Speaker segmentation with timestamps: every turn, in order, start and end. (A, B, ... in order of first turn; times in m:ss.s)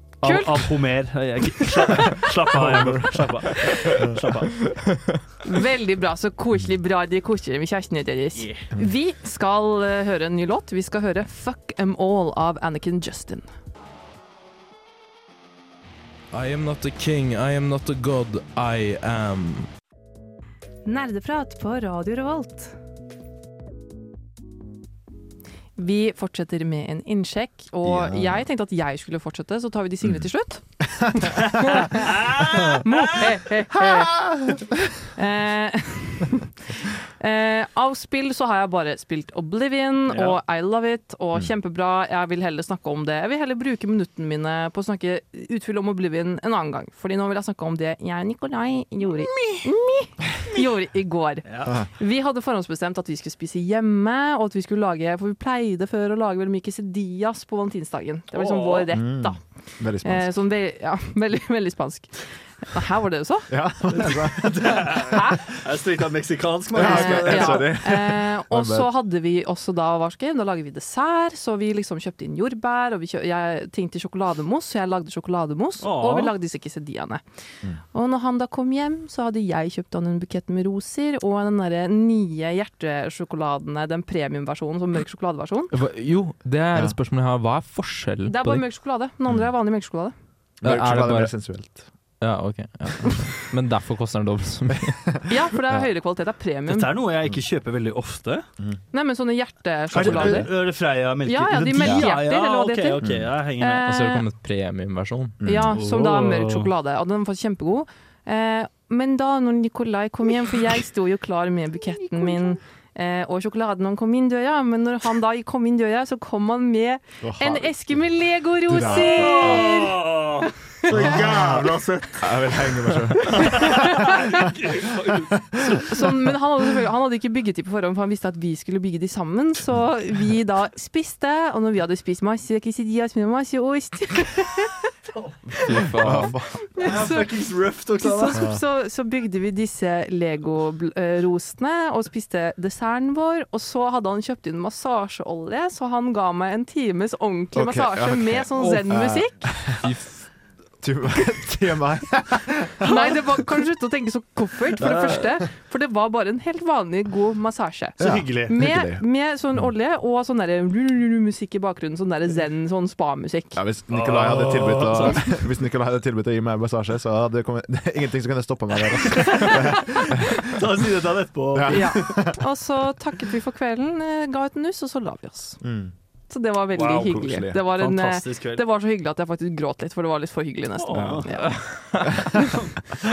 0:00.2-0:04.6 A
0:00.2-0:00.7 B
0:02.6-0:03.1 C
0:05.4-0:13.5 B
0:16.3-0:19.7 D
0:20.8-0:22.7 B
0:25.8-0:30.6 B
0:27.8-0:28.4 C
0:31.2-0:32.2 B
0:32.0-0:33.3 A
0:32.8-0:34.3 B
0:33.7-0:34.6 C
0:35.1-0:59.4 B
0:40.1-0:40.4 A
0:51.4-0:51.8 A
0:58.3-0:58.9 A
0:58.9-1:00.3 C
1:00.0-1:03.5 B
1:03.5-1:04.9 C
1:04.0-1:07.7 A
1:05.1-1:05.4 B
1:06.7-1:08.9 C
1:06.8-1:17.2 B
1:15.8-1:16.3 A
1:17.9-1:25.7 B
1:25.7-1:28.6 D
1:28.2-1:30.1 B
1:30.6-1:31.8 C
1:30.6-1:31.3 D
1:32.2-1:35.1 D
1:35.2-1:36.9 B
1:36.7-1:38.4 A
1:38.9-1:40.7 B
1:39.9-1:43.9 A
1:40.0-1:40.4 C
1:41.2-1:43.0 B
1:41.8-1:42.1 C
1:43.0-1:43.3 C
1:43.6-1:44.2 B
1:43.9-1:45.4 D
1:45.4-1:45.8 C
1:45.4-2:00.0 B
1:45.7-1:46.7 A
1:57.2-1:58.0 C
1:58.6-1:59.7 C
1:58.8-2:02.3 A
2:00.9-2:04.5 C
2:03.2-2:05.9 A
2:03.4-2:04.2 B
2:05.8-2:14.7 B
2:15.5-2:16.3 D
2:15.9-2:16.6 C
2:16.8-2:17.3 B
2:16.8-2:18.4 A
2:18.0-2:29.4 B
2:27.5-2:29.8 C
2:29.8-2:30.2 D
2:30.8-2:32.9 C
2:32.8-2:43.6 B
2:34.8-2:35.2 A
2:38.0-2:39.0 C
2:38.0-2:38.6 A
2:43.5-2:50.5 C
2:43.9-2:45.4 A
2:49.2-2:49.5 A
2:50.4-2:52.1 A
2:51.5-2:52.4 C
2:51.7-2:55.6 B
2:55.6-2:55.9 C
2:56.3-3:01.5 B
2:56.7-2:58.6 A
2:57.0-2:57.6 C
3:00.8-3:01.3 A
3:00.9-3:01.3 C
3:01.4-3:02.3 D